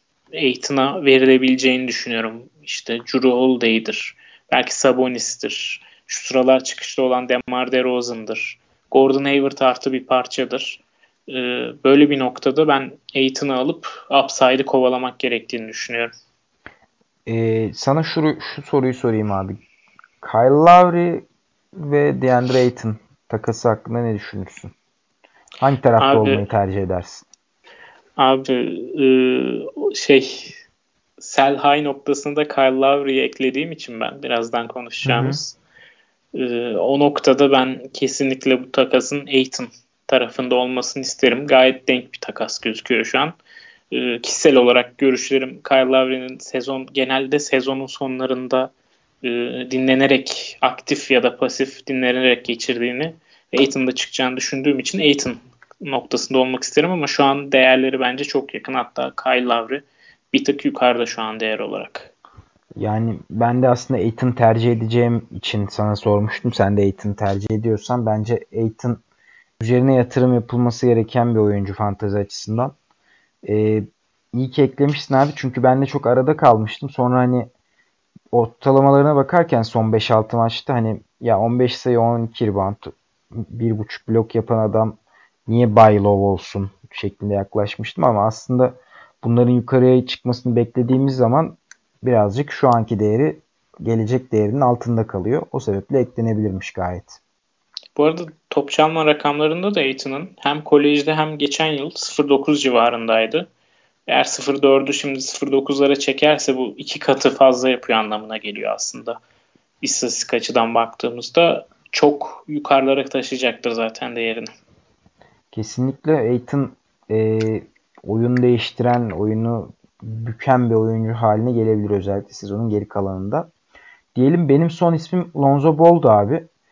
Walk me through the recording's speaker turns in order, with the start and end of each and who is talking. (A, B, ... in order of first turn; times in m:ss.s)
0:00.3-0:16.1 A
0:17.3-0:19.6 B
0:20.2-0:21.2 B
0:21.8-0:24.7 B
0:25.6-0:27.2 B
0:26.0-0:26.4 A
0:28.2-0:30.6 A
0:31.2-0:35.6 A
0:35.0-0:35.4 B
0:36.3-0:43.3 A
0:43.9-0:48.7 A
0:49.2-1:02.1 A
1:02.8-1:09.0 B
1:09.6-1:12.7 B
1:13.4-1:17.5 B
1:18.3-1:37.2 B
1:37.9-1:43.5 A
1:44.1-1:49.2 A
1:49.8-1:54.5 A
1:55.5-2:03.5 B
2:04.1-2:06.5 B